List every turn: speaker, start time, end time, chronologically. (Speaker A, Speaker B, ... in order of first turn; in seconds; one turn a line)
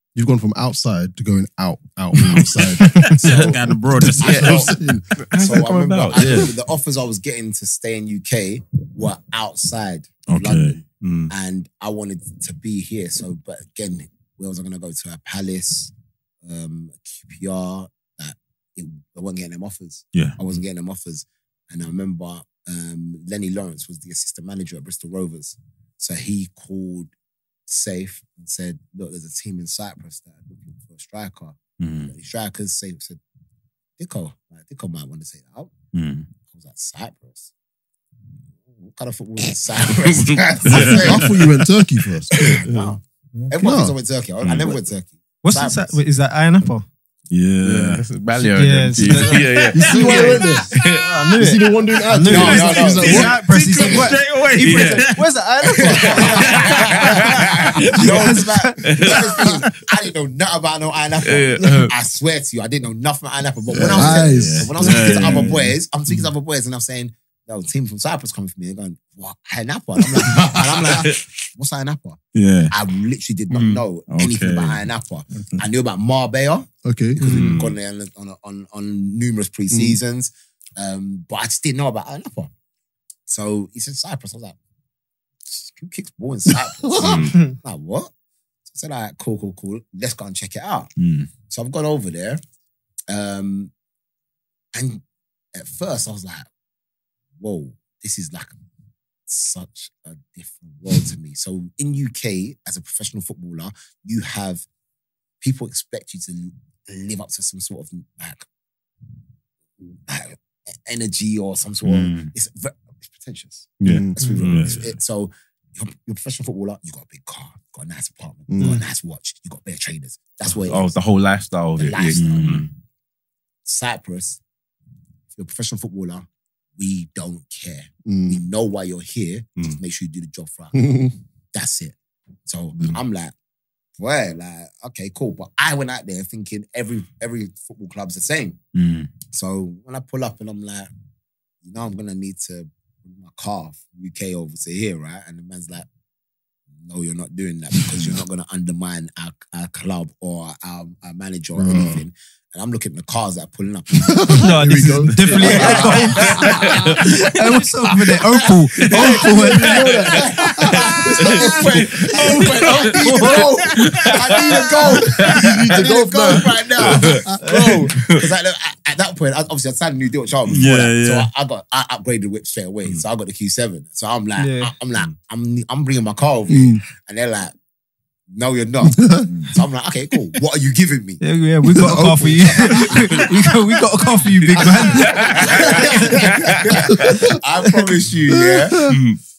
Speaker A: 0.1-3.2
Speaker B: 2.1-3.1
Speaker C: 2.3-4.8
Speaker D: 3.0-15.9
Speaker A: 3.9-5.6
Speaker B: 5.2-6.5
Speaker A: 6.2-6.5
Speaker C: 10.3-10.8
Speaker B: 11.0-11.3
Speaker D: 16.4-27.1
Speaker D: 27.7-33.2
Speaker C: 31.8-32.1
Speaker D: 34.0-35.7
Speaker C: 35.9-36.3
Speaker D: 36.5-37.5
Speaker D: 38.8-41.5
Speaker B: 40.0-40.5
Speaker C: 40.6-41.3
Speaker A: 40.7-42.3
Speaker D: 42.3-46.0
Speaker B: 42.4-43.5
Speaker A: 43.6-43.9
Speaker C: 44.4-44.7
Speaker E: 45.4-46.9
Speaker C: 47.3-48.0
Speaker B: 47.6-51.1
Speaker E: 48.5-59.6
Speaker C: 49.1-50.5
Speaker A: 49.7-53.5
Speaker D: 52.2-54.1
Speaker C: 52.5-55.3
Speaker B: 54.6-55.1
Speaker D: 55.6-82.5
Speaker B: 56.0-57.4
Speaker C: 56.5-56.9
Speaker B: 57.9-59.4
Speaker B: 61.2-61.9
Speaker A: 63.7-65.5
Speaker C: 63.8-65.7
Speaker B: 70.2-71.2
Speaker C: 72.3-72.7
Speaker C: 73.5-75.6
Speaker A: 76.8-77.2
Speaker B: 77.2-77.8
Speaker C: 77.3-77.6
Speaker D: 83.3-84.6
Speaker D: 85.5-88.1
Speaker A: 86.9-87.2
Speaker B: 87.0-87.5
Speaker D: 88.7-90.9
Speaker C: 91.0-91.3
Speaker D: 91.5-92.4
Speaker D: 93.1-93.7
Speaker D: 94.7-95.0
Speaker D: 95.5-96.5
Speaker D: 97.4-98.5
Speaker D: 99.3-104.6
Speaker D: 105.4-108.4
Speaker D: 109.8-120.9
Speaker C: 111.8-112.3
Speaker C: 113.8-114.9
Speaker A: 113.8-114.1
Speaker B: 114.2-114.8
Speaker A: 118.5-118.8
Speaker B: 120.4-122.7
Speaker D: 121.8-122.7
Speaker C: 122.1-122.7
Speaker D: 123.7-124.4
Speaker D: 125.3-133.3
Speaker A: 128.0-128.4
Speaker A: 130.7-131.1
Speaker D: 134.0-138.6
Speaker C: 138.7-139.1
Speaker D: 139.3-140.9
Speaker D: 141.6-145.9
Speaker D: 146.8-154.5
Speaker A: 151.5-152.0
Speaker A: 154.1-156.4
Speaker E: 154.3-160.2
Speaker B: 155.0-157.1
Speaker D: 155.3-177.5
Speaker B: 158.9-160.0
Speaker A: 159.0-162.9
Speaker B: 161.2-165.6
Speaker E: 162.3-164.0
Speaker A: 164.3-167.6
Speaker B: 166.8-167.3
Speaker B: 167.9-168.2
Speaker C: 170.5-171.3
Speaker E: 174.4-174.7
Speaker A: 176.5-176.8
Speaker D: 178.3-181.2
Speaker A: 179.0-179.2
Speaker E: 181.2-186.2
Speaker A: 181.7-183.1
Speaker D: 182.0-183.4
Speaker D: 184.4-188.9
Speaker B: 184.4-185.8
Speaker A: 184.6-185.1
Speaker B: 186.3-186.9
Speaker A: 187.0-187.3
Speaker A: 188.3-189.0
Speaker B: 188.9-189.2